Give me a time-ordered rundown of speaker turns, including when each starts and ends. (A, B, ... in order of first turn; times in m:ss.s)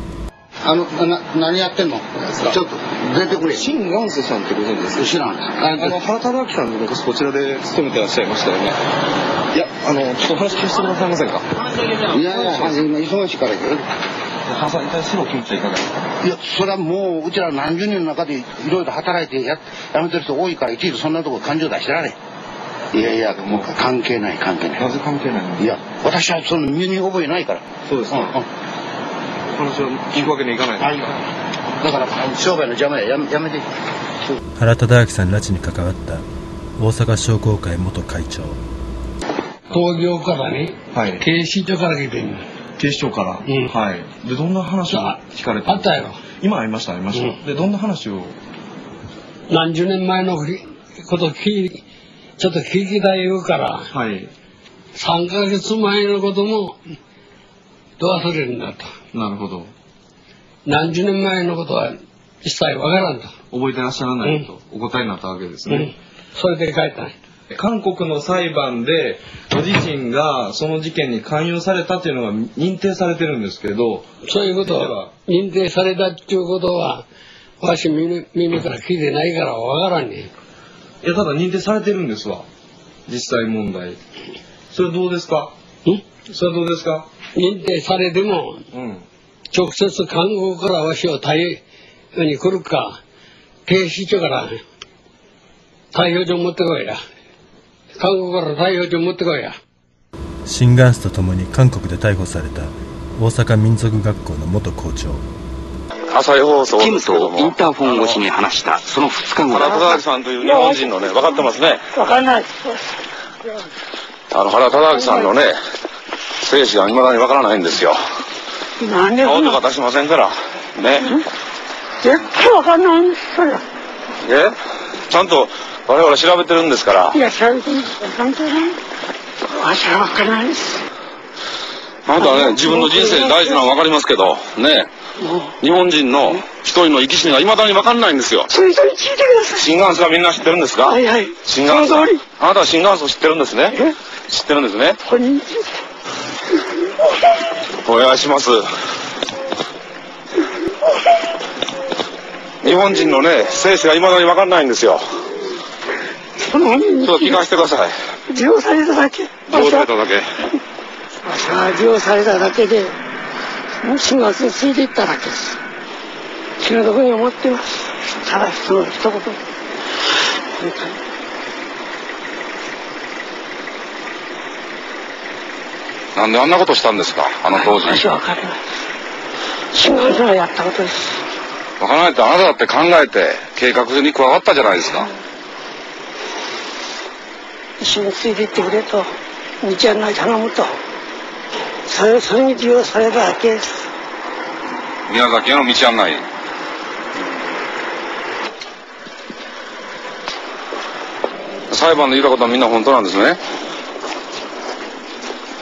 0:00.6-0:03.7 A
0:03.5-0:05.1 B
0:04.9-0:06.0 A
0:05.8-0:08.8 B
0:09.5-0:12.8 B
0:12.1-0:13.8 A
0:14.5-0:15.8 B
0:16.2-0:22.2 A
0:22.9-0:24.9 A
0:24.8-0:25.7 B
0:25.6-0:28.5 A
0:27.9-0:28.3 B
0:29.5-0:31.2 B
0:30.8-0:31.1 A
0:31.8-0:33.6 A
0:34.6-0:36.2 C
0:36.8-0:38.6 C
0:39.7-0:42.4 D
0:40.9-0:41.2 B
0:42.8-0:48.4 B
0:43.4-0:43.7 D
0:44.9-0:46.2 D
0:47.1-0:47.4 D
0:49.5-0:51.8 D
0:52.4-0:53.8 D
0:53.9-0:54.3 B
0:55.0-0:56.8 D
0:58.0-0:58.9 D
0:59.1-0:59.7 B
1:00.6-1:03.3 D
1:03.5-1:05.9 B
1:04.2-1:04.5 D
1:05.7-1:07.1 D
1:07.5-1:14.1 B
1:14.2-1:17.0 D
1:14.6-1:15.2 B
1:17.6-1:20.3 D
1:21.0-1:22.4 B
1:23.1-1:24.0 B
1:24.7-1:25.5 B
1:26.2-1:27.2 B
1:27.3-1:28.6 D
1:28.7-1:29.0 B
1:29.5-1:31.6 D
1:32.1-1:33.0 D
1:33.7-1:34.6 D
1:35.9-1:37.0 D
1:38.0-1:39.5 D
1:40.4-1:45.2 C
1:46.1-1:48.2 E
1:46.8-1:50.0 F
1:49.4-1:51.8 E
1:50.4-1:53.0 G
1:54.3-1:55.6 E
1:54.9-1:55.3 G
1:56.4-1:58.0 E
1:58.8-1:59.6 G
1:59.2-2:01.1 E
2:02.0-2:03.6 G
2:04.2-2:04.5 E
2:05.1-2:07.2 E
2:07.1-2:08.8 G
2:09.5-2:10.8 G
2:12.0-2:14.9 E
2:12.2-2:13.7 G
2:15.2-2:15.6 G
2:15.6-2:18.5 E
2:18.5-2:19.7 G
2:19.6-2:25.0 E
2:20.8-2:22.2 G
2:25.0-2:25.8 G
2:27.0-2:27.4 G
2:27.8-2:28.6 E
2:32.6-2:35.0 E
2:36.4-2:37.4 G
2:37.0-2:37.9 E
2:38.3-2:39.9 G
2:39.5-2:40.3 E
2:41.2-2:43.0 G
2:43.8-2:45.6 G
2:46.6-2:49.4 G
2:50.5-2:51.0 G
2:56.2-2:58.0 E
2:57.5-2:58.6 G
2:59.7-3:01.2 G
3:01.8-3:05.1 E
3:07.8-3:10.8 G
3:11.8-3:13.9 G
3:15.1-3:16.2 E
3:21.7-3:23.4 E